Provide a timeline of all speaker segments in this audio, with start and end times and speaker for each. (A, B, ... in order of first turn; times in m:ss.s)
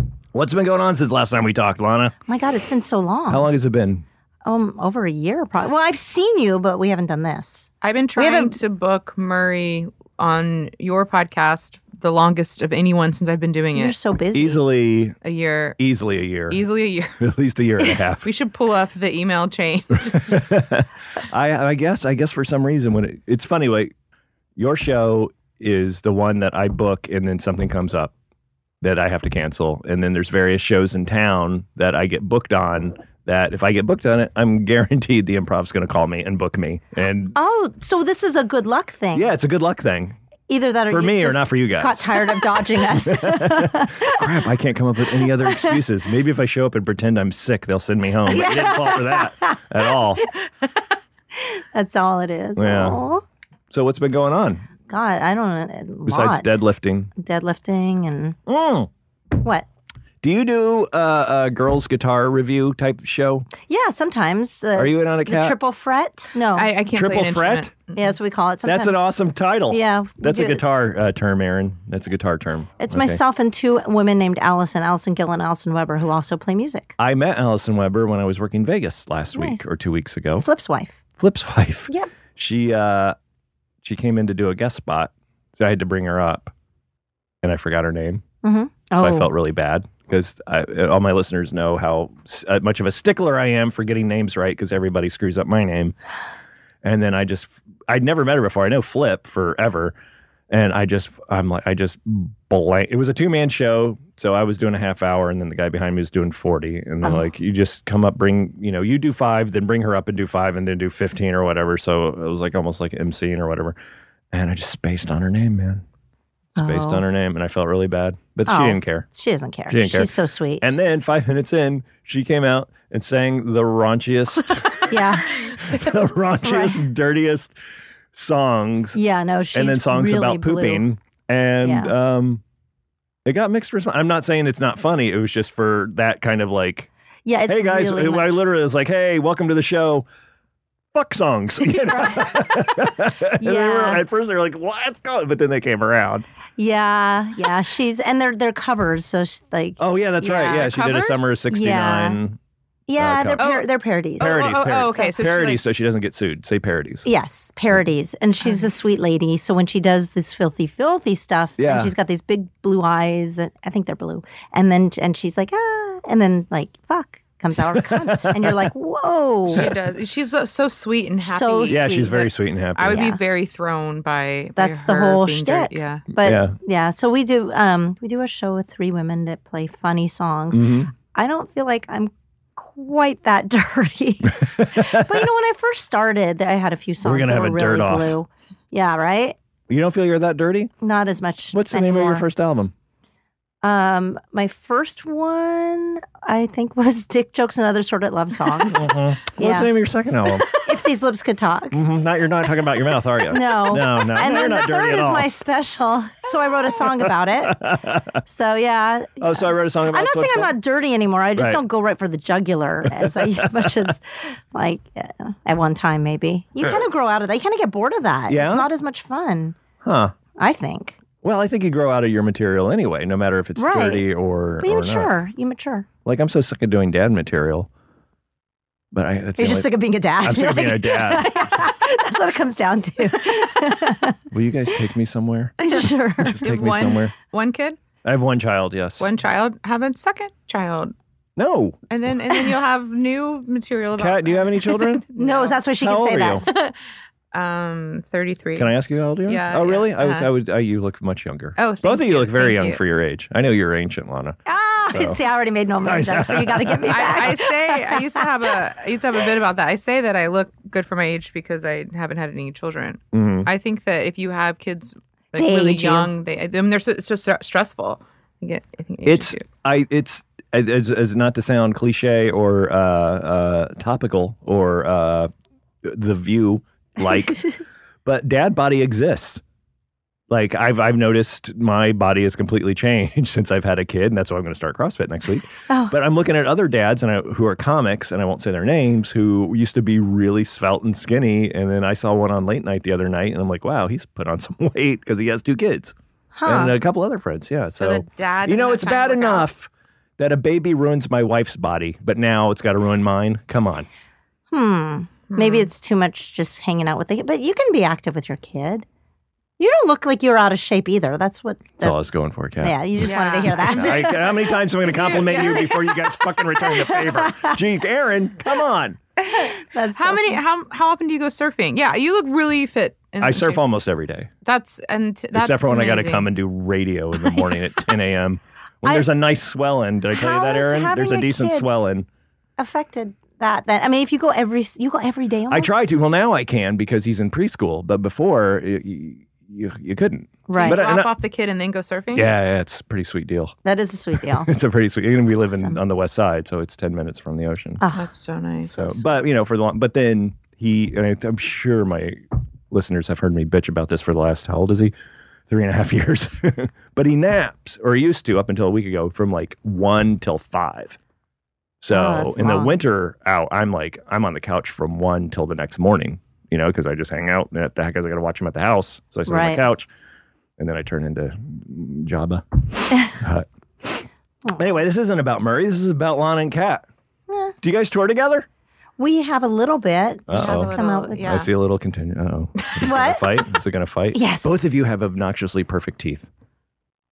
0:00.3-0:02.1 A
0:02.3-0:03.5 B
0:03.3-0:04.0 A
0:04.4-0:08.6 B
0:07.8-0:14.0 C
0:13.7-0:14.6 B
0:14.3-0:15.1 A
0:15.2-0:15.8 C
0:15.8-0:16.6 A
0:16.5-0:17.2 C
0:17.2-0:18.3 A
0:18.2-0:20.6 C
0:20.1-0:23.9 A
0:24.6-0:28.1 A
0:28.8-0:37.3 A
0:37.3-0:39.3 B
0:39.1-0:40.2 A
0:40.5-0:44.2 B
0:40.9-0:50.2 A
0:45.3-0:45.8 B
0:48.2-0:49.6 B
0:51.3-0:53.2 B
0:52.6-0:53.0 A
0:53.7-0:54.7 A
0:54.9-0:56.6 B
0:56.0-0:57.1 A
0:57.2-0:58.4 B
0:58.4-0:58.9 A
0:59.3-0:59.6 B
1:00.2-1:03.5 A
1:03.6-1:06.7 B
1:04.7-1:05.6 A
1:06.5-1:08.0 C
1:06.9-1:07.7 A
1:07.9-1:09.1 B
1:08.6-1:13.2 A
1:09.7-1:10.6 B
1:12.8-1:16.9 B
1:17.0-1:20.4 A
1:19.3-1:19.6 B
1:20.4-1:20.9 B
1:21.2-1:23.2 A
1:23.8-1:26.5 A
1:27.4-1:28.2 A
1:28.4-1:29.3 B
1:29.0-1:35.9 A
1:36.8-1:39.9 A
1:40.5-1:53.7 A
1:54.3-1:55.8 A
1:56.6-1:57.0 B
1:56.6-1:59.0 A
1:58.5-2:00.7 B
1:59.7-2:07.5 A
2:04.9-2:05.6 B
2:06.4-2:06.8 B
2:08.1-2:09.0 A
2:08.9-2:10.8 B
2:09.5-2:12.4 A
2:11.6-2:11.9 B
2:13.2-2:16.9 A
2:17.2-2:18.4 B
2:17.5-2:20.0 A
2:20.9-2:26.2 A
2:21.7-2:22.6 B
2:23.4-2:24.0 B
2:26.6-2:30.7 B
2:29.8-2:32.4 A
2:30.3-2:31.3 C
2:31.5-2:32.2 B
2:32.9-2:34.3 B
2:33.0-2:33.4 A
2:33.4-2:33.7 C
2:34.2-2:35.6 C
2:34.2-2:37.1 A
2:37.0-2:49.7 B
2:41.6-2:41.9 A
2:47.7-2:48.7 A
2:49.5-2:56.0 C
2:51.2-2:52.3 B
2:51.7-2:53.0 A
2:52.9-2:53.2 B
2:54.6-3:09.4 B
2:56.2-2:56.5 A
3:00.5-3:00.9 A
3:04.3-3:05.3 A
3:07.0-3:08.2 A
3:09.7-3:10.7 A
3:10.8-3:12.3 B
3:11.5-3:12.7 A
3:13.6-3:19.7 B
3:18.7-3:20.5 A
3:20.5-3:21.8 B
3:21.7-3:25.3 A
3:23.3-3:27.6 B
3:26.8-3:28.2 A
3:28.2-3:39.6 B
3:29.2-3:30.5 A
3:31.4-3:31.6 A
3:32.9-3:33.8 A
3:38.3-3:38.7 A
3:39.8-3:40.1 A
3:40.4-3:41.0 B
3:41.2-3:45.1 A
3:43.6-3:44.1 B
3:44.6-3:45.9 B
3:46.0-3:47.7 A
3:48.9-3:49.7 A
3:49.4-3:54.2 B
3:50.2-3:51.5 A
3:54.3-3:57.1 A
3:55.6-3:56.4 B
3:56.4-3:57.8 C
3:58.0-3:59.1 A
3:59.0-4:00.9 C
4:01.4-4:01.8 A
4:01.9-4:05.6 C
4:04.0-4:05.0 A
4:05.1-4:06.5 B
4:05.8-4:06.4 A
4:06.5-4:06.7 C
4:07.3-4:08.7 C
4:08.6-4:14.4 A
4:09.2-4:10.3 C
4:11.6-4:12.8 C
4:14.4-4:18.2 B
4:14.9-4:15.2 A
4:15.8-4:17.3 A
4:16.9-4:29.5 C
4:23.1-4:23.5 A
4:25.3-4:26.1 B
4:29.0-4:35.3 A
4:35.8-4:37.4 A
4:38.0-4:39.4 A
4:40.3-4:55.9 A
4:45.7-4:46.0 B
4:56.3-4:56.8 B
4:56.4-5:03.9 A
4:57.7-4:59.5 C
5:04.5-5:08.8 B
5:05.3-5:05.7 C
5:09.6-5:12.0 B
5:11.8-5:19.0 A
5:12.6-5:15.9 B
5:13.0-5:15.8 C
5:16.6-5:17.6 B
5:19.3-5:20.4 B
5:19.3-5:23.6 C
5:23.2-5:24.3 A
5:24.4-5:26.3 C
5:25.3-5:32.1 A
5:30.1-5:31.7 B
5:32.6-5:35.7 B
5:35.5-5:41.1 A
5:40.5-5:40.8 B
5:40.5-5:42.3 C
5:42.1-5:43.5 A
5:43.6-5:44.5 B
5:44.2-5:47.8 A
5:45.4-5:45.8 B
5:47.8-5:48.0 B
5:47.9-5:48.8 C
5:48.7-5:54.9 A
5:55.5-6:01.0 A
6:01.8-6:09.9 A
6:01.9-6:02.8 B
6:09.3-6:09.6 B
6:10.6-6:16.8 A
6:17.3-6:17.5 B
6:17.6-6:18.5 A
6:19.0-6:21.4 B
6:20.3-6:26.3 A
6:20.3-6:21.5 C
6:22.8-6:23.4 B
6:24.1-6:24.6 B